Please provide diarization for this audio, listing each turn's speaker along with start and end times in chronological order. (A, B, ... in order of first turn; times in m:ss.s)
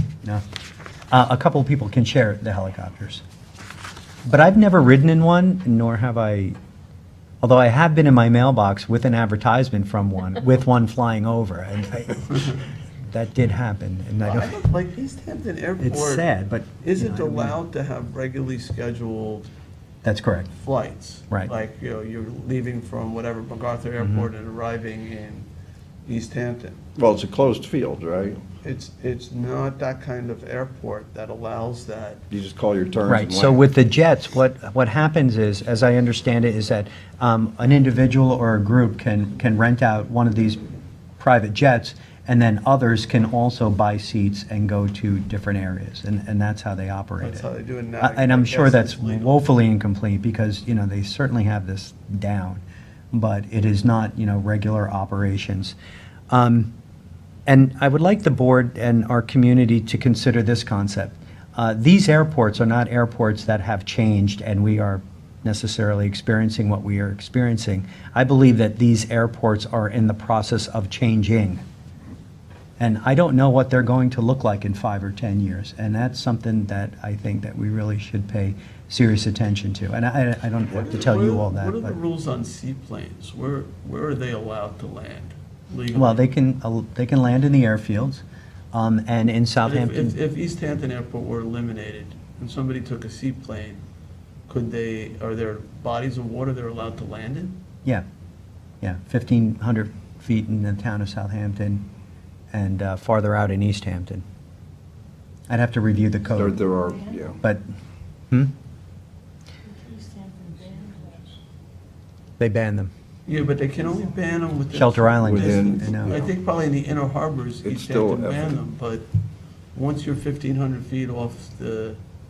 0:01.1-0:03.2 A
0:04.3-0:06.6 A
0:07.4-0:14.6 A
0:14.2-0:19.5 B
0:15.8-0:17.6 A
0:20.0-0:20.5 A
0:20.5-0:25.5 B
0:24.0-0:24.3 A
0:26.0-0:26.8 B
0:27.0-0:28.4 C
0:28.6-0:32.2 B
0:32.3-0:33.6 C
0:33.1-0:40.6 A
0:41.2-0:47.5 A
0:47.2-0:49.4 B
0:48.0-0:52.6 A
0:53.1-0:55.8 A
0:56.3-0:56.7 A
0:57.5-1:11.6 A
1:12.8-1:22.0 A
1:20.7-1:26.3 B
1:25.9-1:30.2 A
1:29.6-1:33.8 B
1:34.5-1:37.6 B
1:38.8-1:41.9 A
1:42.5-1:44.2 A
1:45.5-1:46.6 A
1:46.3-1:47.4 C
1:52.4-1:52.9 A
1:53.2-1:59.1 B
1:54.7-1:56.2 A
1:55.2-1:56.3 C
1:57.6-1:58.6 C
1:59.7-2:02.0 B